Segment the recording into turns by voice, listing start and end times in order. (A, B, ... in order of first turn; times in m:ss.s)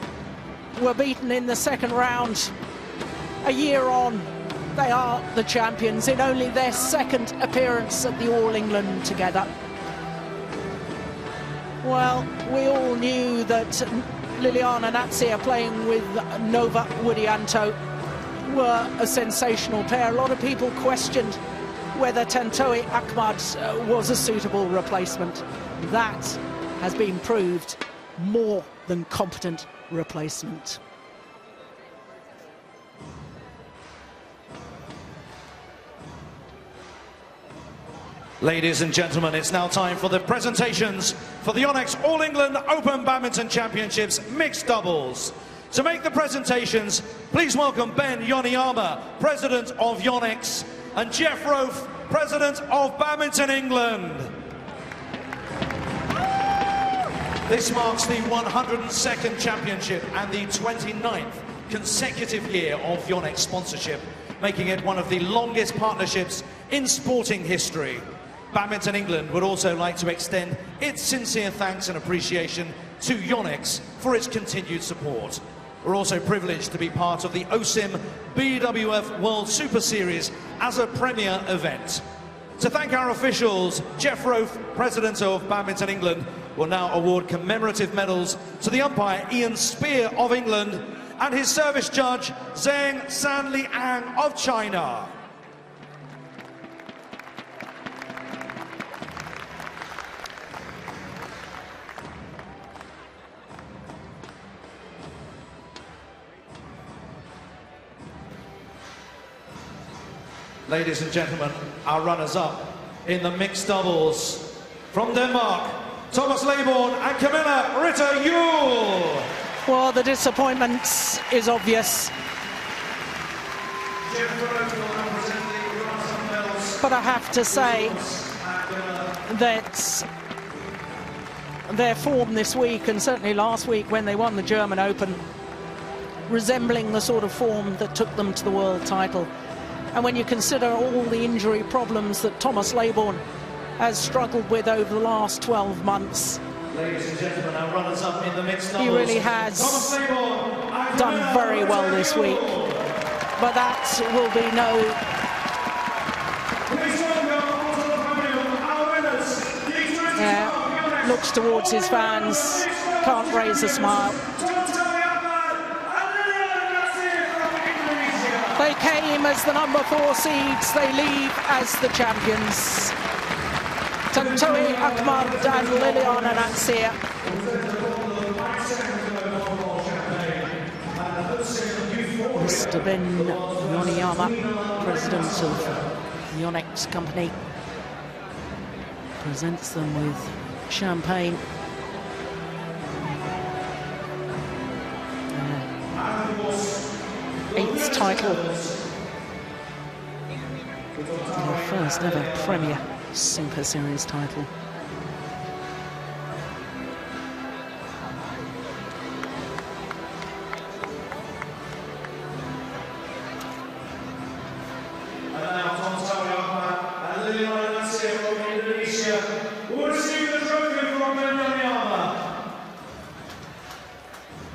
0:00.8-0:02.5 A
0:03.4-0:09.5 A
0:11.8-0:17.8 A
0:18.4-0:21.4 A
0:21.9-0:30.8 A
0:38.4-0:54.4 B
0:57.5-1:22.0 B
1:22.6-1:35.2 B
1:50.7-1:59.3 B
1:59.6-2:02.1 A
2:04.0-2:09.2 B
2:06.8-2:08.0 A
2:09.3-2:10.1 A
2:11.7-2:15.2 A
2:16.3-2:19.3 A
2:19.9-2:23.2 A
2:23.8-2:26.4 A
2:26.7-2:32.9 B
2:28.8-2:30.0 A
2:30.9-2:32.4 A
2:33.4-2:35.0 A
2:36.7-2:48.6 B
2:40.2-2:44.2 A
2:48.6-2:53.0 A
2:54.1-2:57.0 A
2:54.1-2:56.6 B
2:57.2-3:05.9 B
3:02.3-3:07.4 A
3:09.2-3:11.4 A
3:15.3-3:15.8 A
3:15.9-3:17.0 B
3:17.5-3:18.8 B
3:17.5-3:18.4 A
3:21.0-3:21.5 B
3:21.3-3:24.5 A
3:35.3-3:42.3 B